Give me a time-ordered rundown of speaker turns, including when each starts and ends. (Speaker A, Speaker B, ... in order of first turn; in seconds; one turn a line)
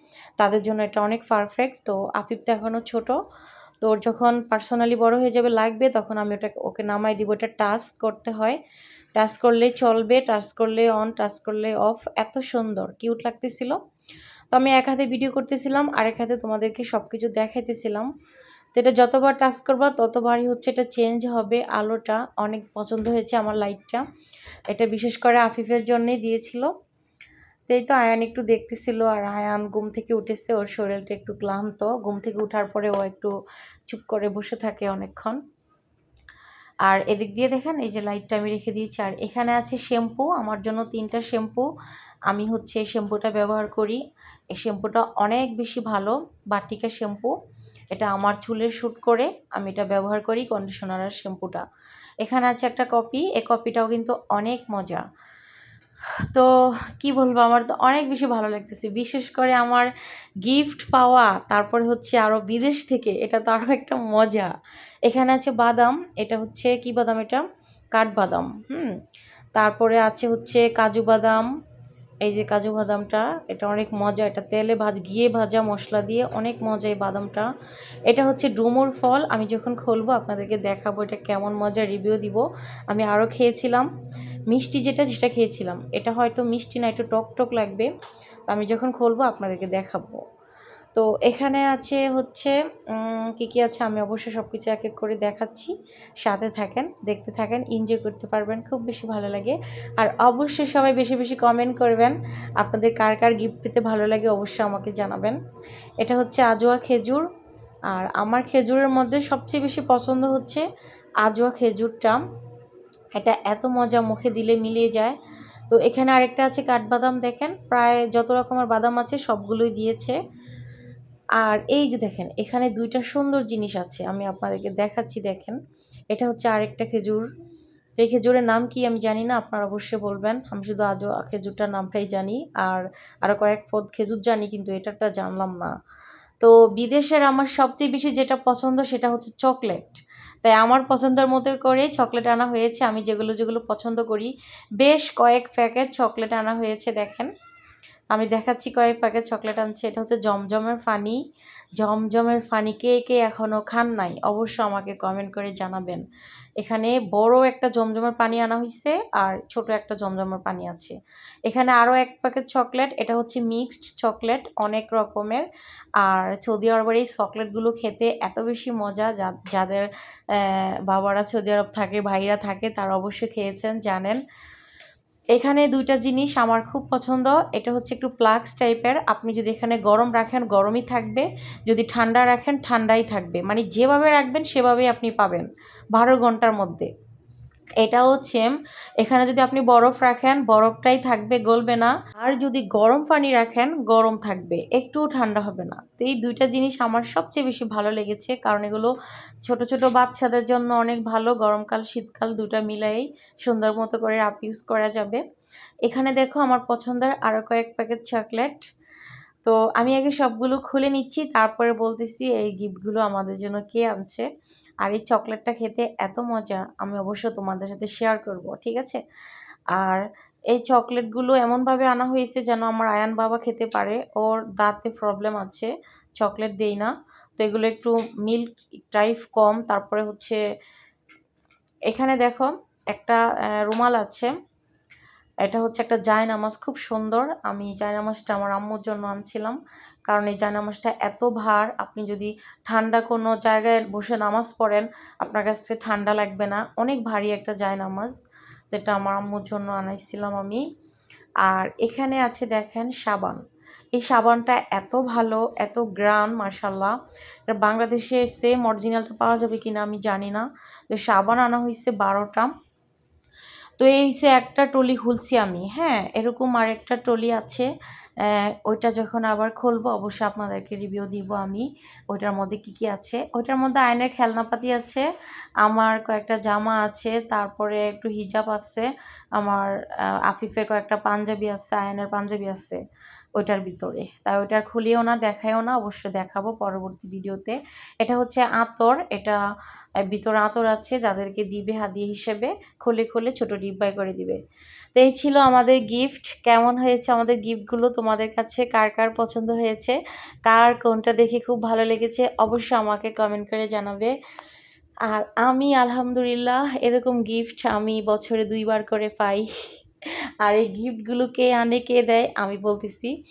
Speaker A: 0.4-3.2
Speaker A: 3.8-8.6
Speaker A: 9.2-13.8
Speaker A: 14.5-18.1
Speaker A: 18.7-24.1
Speaker A: 24.7-26.7
Speaker A: 27.7-33.3
Speaker A: 33.9-35.4
Speaker A: 36.9-41.7
Speaker A: 42.3-44.0
Speaker A: 44.5-47.3
Speaker A: 47.9-51.6
Speaker A: 52.2-55.0
Speaker A: 56.3-59.9
Speaker A: 60.5-64.5
Speaker A: 65.1-69.0
Speaker A: 69.6-71.5
Speaker A: 72.2-77.5
Speaker A: 78.1-83.9
Speaker A: 84.5-87.9
Speaker A: 88.5-90.2
Speaker A: 91.0-105.4
Speaker A: 106.0-107.2
Speaker A: 107.9-110.7
Speaker A: 111.2-112.2
Speaker A: 113.2-115.2
Speaker A: 115.7-120.2
Speaker A: 121.4-125.6
Speaker A: 126.1-127.3
Speaker A: 128.0-135.7
Speaker A: 136.4-147.3
Speaker A: 148.1-151.2
Speaker A: 151.8-156.1
Speaker A: 156.6-160.9
Speaker A: 161.5-165.5
Speaker A: 166.0-174.2
Speaker A: 175.3-186.9
Speaker A: 187.8-198.9
Speaker A: 199.4-205.2
Speaker A: 205.9-208.6
Speaker A: 209.4-214.3
Speaker A: 214.8-219.0
Speaker A: 219.7-230.4
Speaker A: 231.9-234.3
Speaker A: 235.4-248.2
Speaker A: 248.7-250.6
Speaker A: 251.4-253.4
Speaker A: 253.9-256.9
Speaker A: 257.5-262.5
Speaker A: 263.8-267.7
Speaker A: 268.2-275.1
Speaker A: 275.6-282.8
Speaker A: 283.4-289.4
Speaker A: 290.1-294.4
Speaker A: 294.9-304.1
Speaker A: 305.1-309.5
Speaker A: 310.4-313.1